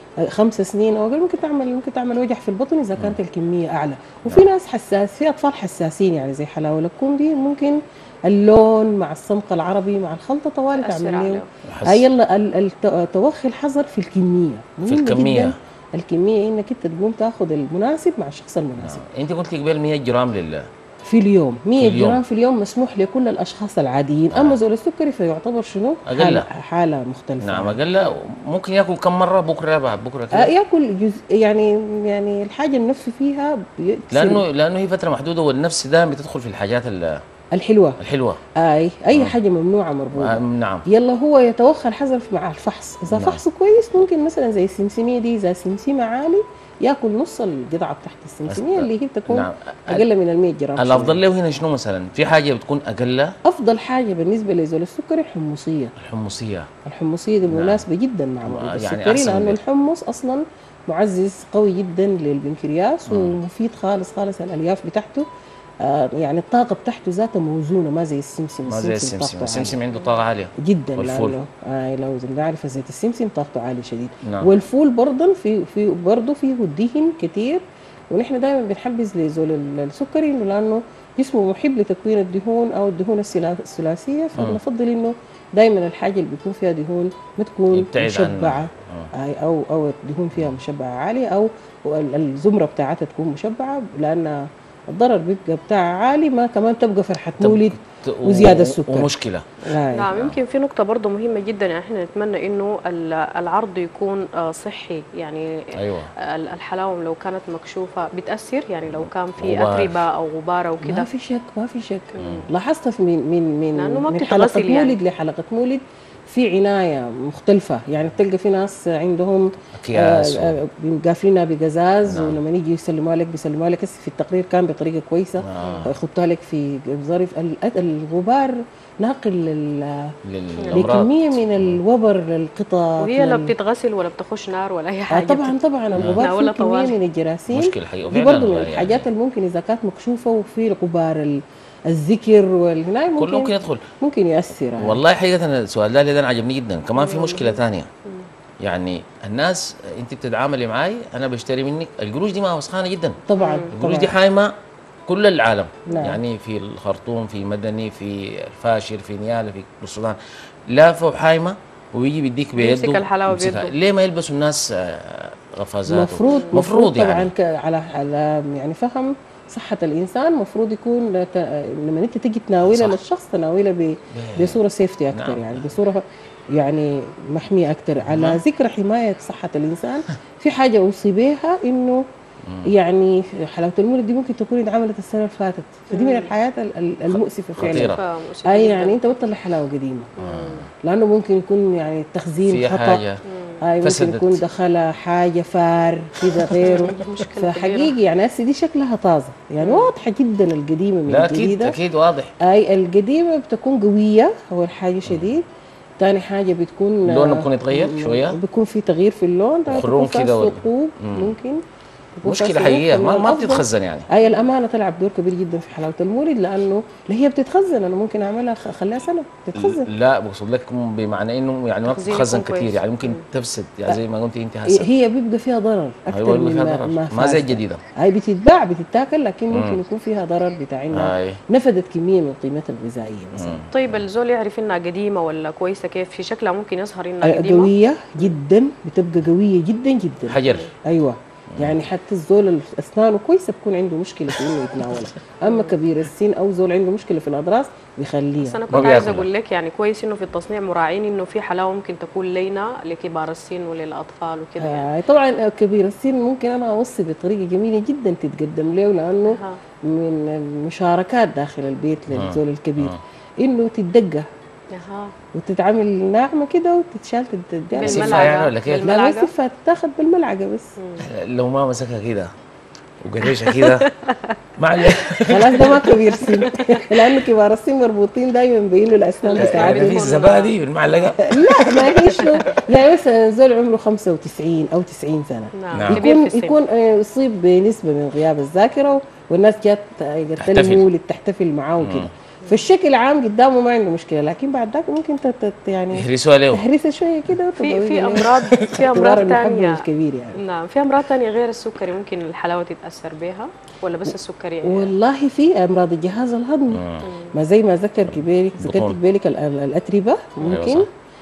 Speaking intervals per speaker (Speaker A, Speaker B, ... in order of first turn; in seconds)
Speaker A: 0.2-19.0, 21.0-27.9, 30.3-34.4, 37.5-38.0, 38.6-51.2, 53.5-55.9, 56.8-65.3, 65.8-69.8, 70.6-99.1, 99.6-100.1, 110.8-130.1, 130.7-133.5, 135.1-145.0, 153.2-154.1, 155.9-156.2, 165.9-182.0, 182.7-190.1, 190.8-193.0, 193.6-201.8, 202.4-205.4, 206.0-211.6, 212.2-219.9, 224.7-233.6, 237.2-249.0, 254.6-264.2, 265.3-270.7, 275.3-280.1, 281.2-300.4, 304.6-310.9
Speaker B: 10.8-11.5, 99.9-111.1, 112.1-112.5, 113.8-115.0, 125.6-125.9, 130.6-130.8, 133.0-136.9, 147.0-148.2, 153.3-153.7, 162.6-163.7, 166.2-166.6, 185.9-186.3, 187.6-189.0, 190.2-190.6, 193.2-193.6, 196.6-197.9, 199.6-199.9, 221.8-223.2, 233.7-238.3, 240.4-240.7, 245.5-245.7, 248.4-254.9, 259.3-259.6, 264.7-265.1, 267.7-269.3, 270.8-271.1, 273.3-274.3, 275.8-277.2, 279.2-280.5, 281.9-282.4, 285.5-286.6, 297.6-299.8, 300.4-304.9, 307.0-307.3
Speaker C: 11.6-12.1, 14.8-15.6, 18.8-20.7, 21.8-22.2, 24.3-24.6, 26.1-26.5, 27.4-30.5, 34.1-37.2, 38.0-38.4, 40.1-40.9, 43.1-43.4, 48.5-50.0, 50.8-53.3, 56.0-56.7, 57.5-57.8, 58.4-59.6, 63.1-63.4, 68.7-71.3, 74.2-74.5, 87.7-89.1, 97.4-99.5, 100.1-100.4, 105.7-106.1, 108.9-110.1, 112.2-112.5, 119.7-120.6, 122.0-122.4, 125.4-125.9, 130.2-131.8, 135.9-136.2, 137.5-139.1, 143.2-143.8, 144.8-147.9, 148.6-153.2, 153.7-154.5, 155.1-167.3, 172.6-173.0, 174.1-174.6, 175.1-175.6, 178.0-178.4, 182.4-182.7, 187.1-188.0, 190.2-190.7, 192.4-193.2, 193.8-194.4, 201.1-202.3, 205.1-205.3, 207.0-208.4, 209.7-211.3, 212.2-214.1, 219.6-224.9, 226.1-227.8, 229.5-229.8, 230.9-231.4, 233.3-233.7, 240.2-240.7, 248.7-249.3, 262.1-263.0, 267.8-268.9, 271.0-272.3, 273.0-273.9, 274.6-276.0, 279.4-281.9, 285.7-286.1, 290.4-290.9, 291.8-292.1, 295.9-296.6, 306.7-307.1, 308.6-309.0, 310.4-310.9